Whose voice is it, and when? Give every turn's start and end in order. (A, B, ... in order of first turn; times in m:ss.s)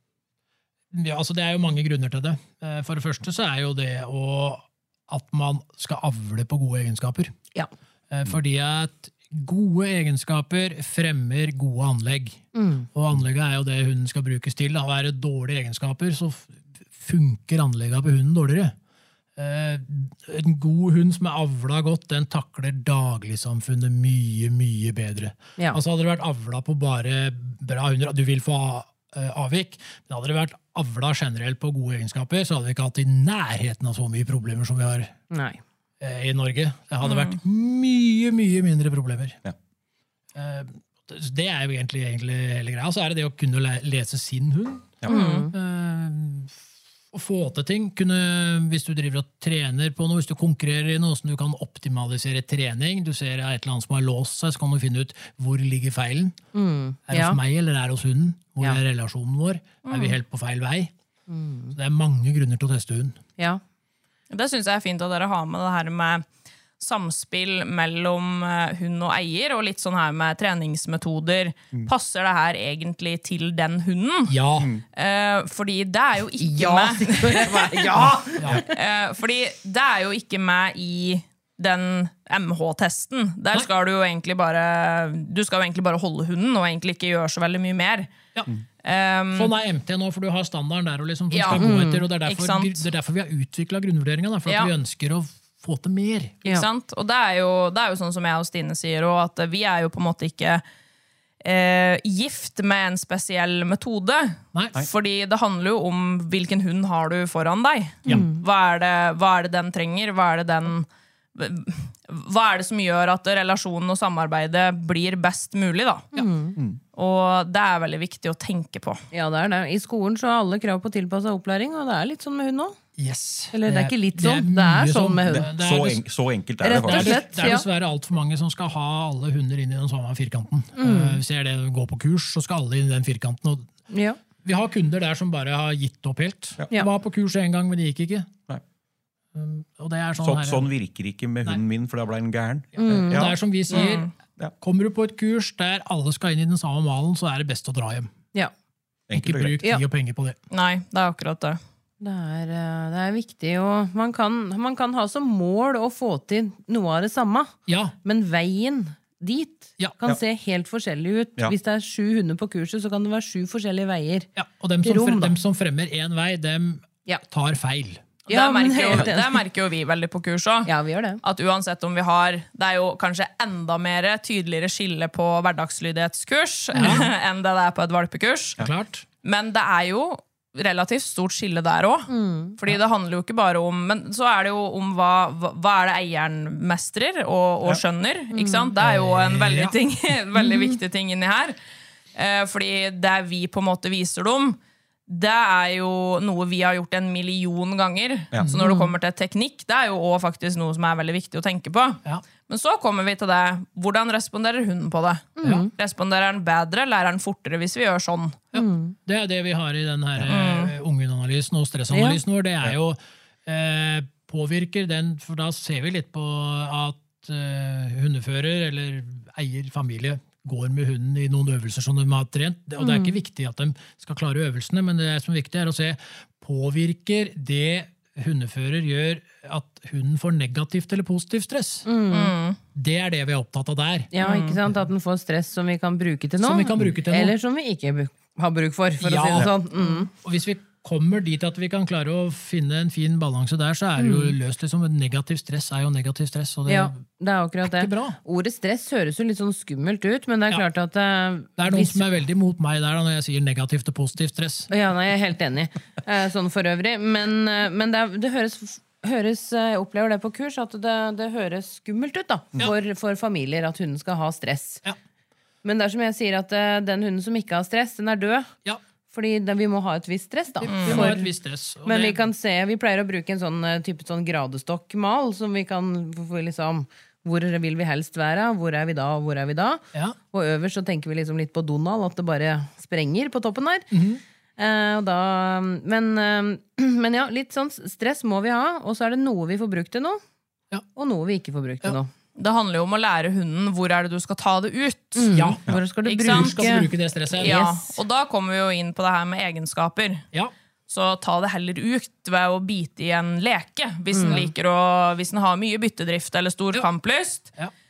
0:00.9-0:07.3 A
0:08.1-0:12.4 A
0:12.5-0:12.9 B
0:12.9-0:18.7 A
0:19.4-0:35.1 A
0:35.3-0:35.6 B
0:36.0-0:39.4 A
0:37.0-0:37.4 C
0:40.3-0:45.0 A
0:45.0-0:45.4 C
0:45.0-0:45.5 B
0:45.5-0:46.5 A
0:47.1-0:56.4 A
0:56.5-0:57.4 B
0:57.1-1:00.9 A
0:59.8-1:00.2 C
1:01.3-1:01.7 B
1:01.7-1:03.2 A
1:04.3-1:06.2 C
1:06.8-1:14.4 C
1:14.3-1:14.7 A
1:14.6-1:14.8 D
1:14.9-1:17.7 C
1:16.4-1:18.6 B
1:17.4-1:18.6 A
1:18.6-1:28.1 C
1:28.8-1:29.5 C
1:29.3-1:36.4 A
1:31.3-1:31.7 C
1:31.5-1:32.1 B
1:32.2-1:32.8 C
1:34.5-1:34.7 C
1:36.4-1:40.6 C
1:41.4-1:56.1 C
1:48.0-1:48.4 B
1:56.1-1:56.6 B
1:56.9-1:59.0 C
1:59.1-2:02.8 B
2:03.0-2:06.0 A
2:03.5-2:05.5 B
2:05.2-2:07.5 D
2:06.6-2:07.6 B
2:06.7-2:13.7 A
2:10.8-2:11.2 B
2:13.9-2:14.2 B
2:14.4-2:18.3 A
2:19.3-2:20.7 A
2:20.2-2:23.8 D
2:22.8-2:23.3 B
2:22.8-2:28.1 A
2:23.7-2:24.1 C
2:29.1-2:29.6 D
2:29.1-2:30.4 A
2:30.5-2:31.6 C
2:32.0-2:44.3 B
2:37.7-2:37.9 A
2:44.4-2:48.0 A
2:44.8-2:45.3 B
2:48.3-2:50.7 C
2:48.3-2:49.4 B
2:50.6-2:51.2 B
2:51.2-2:58.6 C
2:56.7-2:57.1 A
2:58.6-2:59.0 A
2:59.2-3:11.6 C
3:02.1-3:02.6 B
3:08.3-3:08.7 B
3:08.8-3:09.7 A
3:10.4-3:10.7 B
3:12.1-3:28.4 C
3:18.6-3:18.9 B
3:25.4-3:25.7 B
3:28.5-3:28.9 B
3:28.5-3:51.8 A
3:30.3-3:30.7 C
3:31.9-3:32.2 B
3:42.8-3:43.2 B
3:51.8-3:52.3 B
3:52.1-3:52.6 C
3:52.7-3:54.1 A
3:54.1-4:00.1 B
3:54.2-3:54.6 C
3:56.4-3:57.4 A
3:59.0-3:59.6 A
4:00.1-4:07.0 A
4:04.0-4:04.3 B
4:06.7-4:12.0 B
4:07.6-4:08.2 A
4:11.6-4:14.7 A
4:14.7-4:24.8 B
4:25.6-4:28.5 B
4:29.1-4:31.3 B
4:30.6-4:32.2 A
4:30.7-4:31.1 C
4:31.8-4:43.9 B
4:43.9-4:44.2 A
4:44.6-4:50.2 B
4:50.9-4:52.1 B
4:52.4-4:55.3 C
4:55.2-4:57.9 B
4:55.3-4:55.6 A
4:56.0-5:00.2 C
4:56.2-4:57.6 A
5:00.9-5:07.5 C
5:04.1-5:04.5 B